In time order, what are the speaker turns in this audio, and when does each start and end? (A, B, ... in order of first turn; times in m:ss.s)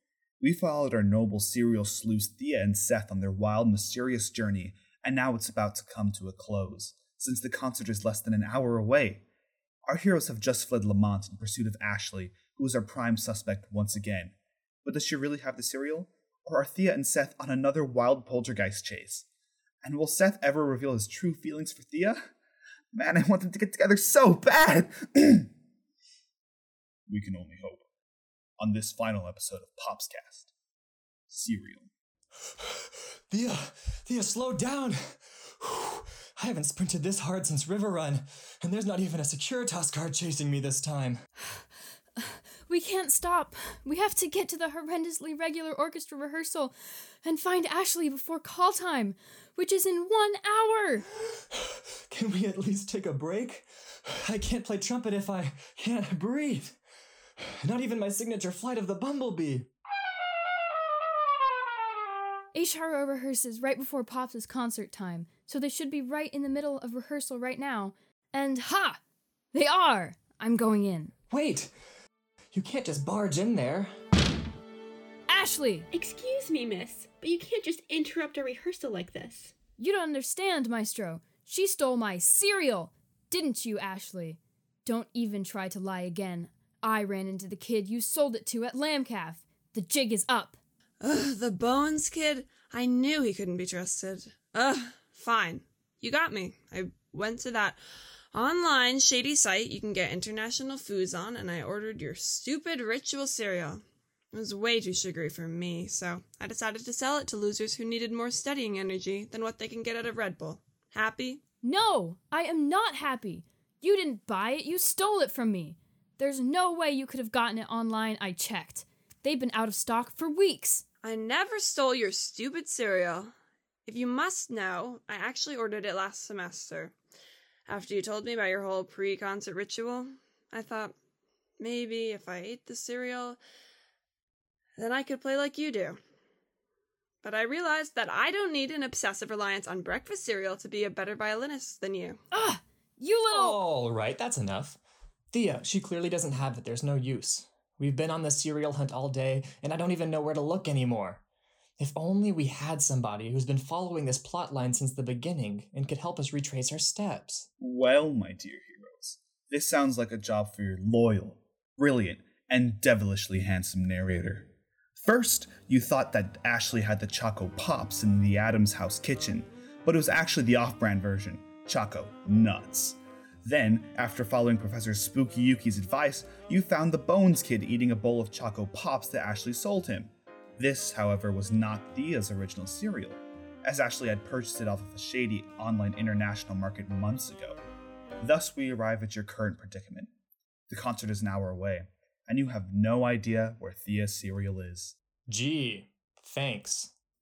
0:00.4-0:09.2 A
0:09.9-0:19.3 A
0:19.8-0:22.2 A
0:22.9-0:25.5 A
0:27.1-0:27.8 A
0:28.6-0:30.5 A
0:31.3-0:31.9 A
0:32.6-0:41.2 B
0:42.2-0:51.1 C
0:51.5-0:56.8 B
0:57.4-0:59.7 B
1:02.5-1:09.0 C
1:09.5-1:11.1 C
1:11.3-1:11.7 B
1:12.5-1:13.9 B
1:15.3-1:15.9 C
1:15.9-1:19.5 D
1:19.8-1:30.6 C
1:31.0-1:37.8 E
1:38.3-1:43.8 E
1:44.3-1:51.4 E
1:51.6-2:00.8 C
2:01.0-2:03.3 E
2:03.8-2:06.9 E
2:07.7-2:10.9 E
2:11.6-2:13.4 E
2:14.8-2:16.0 E
2:17.2-2:22.2 E
2:22.3-2:23.6 C
2:23.3-2:24.8 B
2:25.3-2:31.2 B
2:31.8-2:37.5 B
2:37.6-3:07.6 A
3:08.2-3:10.1 A
3:10.7-3:15.0 A
3:15.3-3:16.9 B